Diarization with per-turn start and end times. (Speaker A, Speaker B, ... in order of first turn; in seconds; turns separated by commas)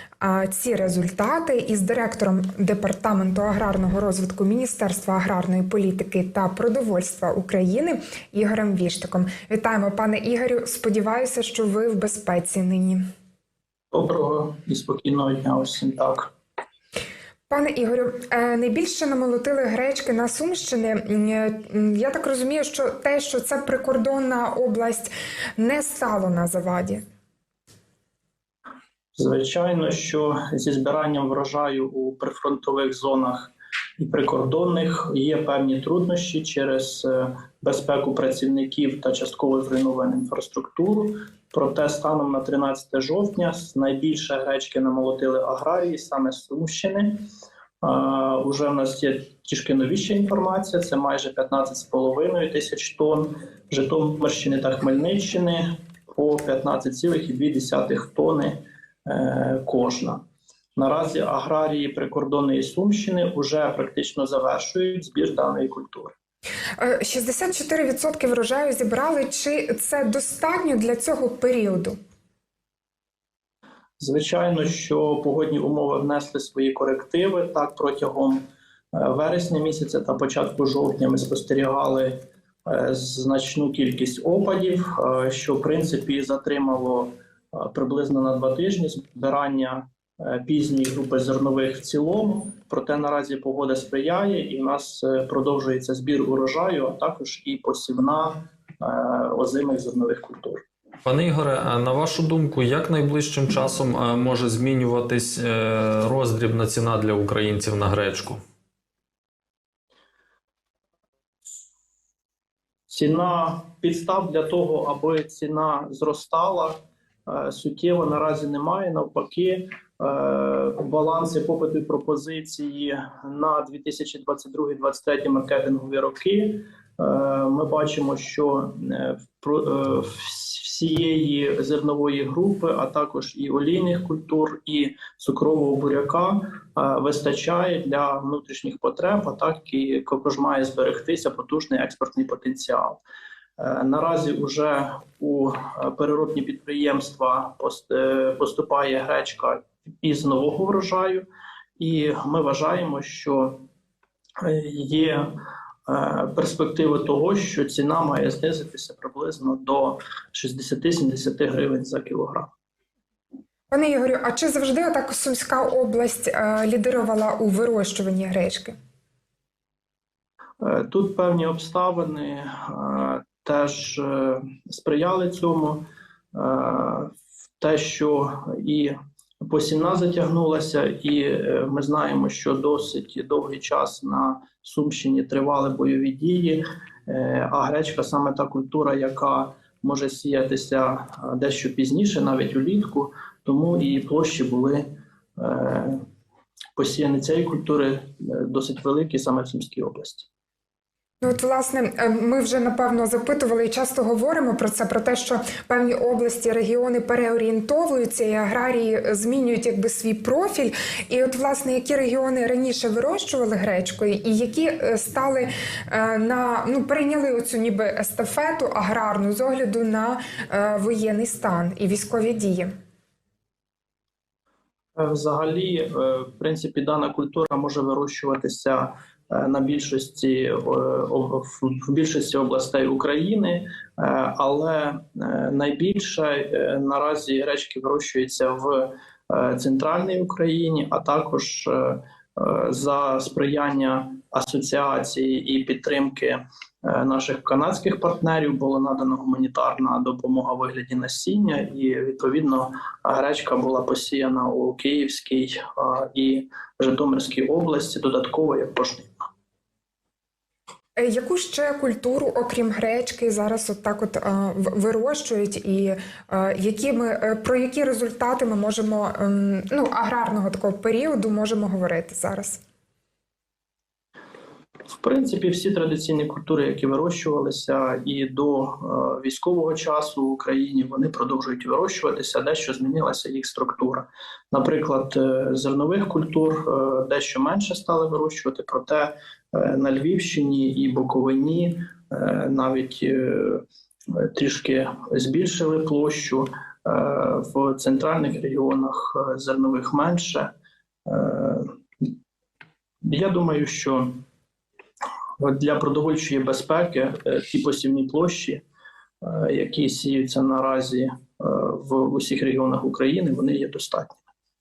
Speaker A: 0.2-13.0, Speaker B: 13.9-16.3, Speaker A: 17.5-27.0, Speaker B: 29.1-47.2, Speaker B: 47.8-60.2, Speaker B: 60.8-66.1, Speaker A: 66.8-72.0, Speaker B: 74.0-100.6, Speaker C: 101.0-108.4, Speaker B: 112.9-143.0, Speaker B: 143.6-151.2, Speaker B: 151.8-153.6, Speaker B: 154.4-155.2, Speaker B: 155.9-162.5, Speaker A: 163.7-168.7, Speaker B: 170.6-194.8, Speaker B: 195.4-196.0, Speaker B: 196.8-200.3, Speaker A: 201.2-222.7, Speaker B: 224.9-259.2, Speaker A: 260.9-272.6, Speaker B: 274.9-300.5, Speaker B: 301.1-302.1, Speaker B: 303.0-304.2, Speaker B: 305.4-308.6, Speaker B: 309.2-314.2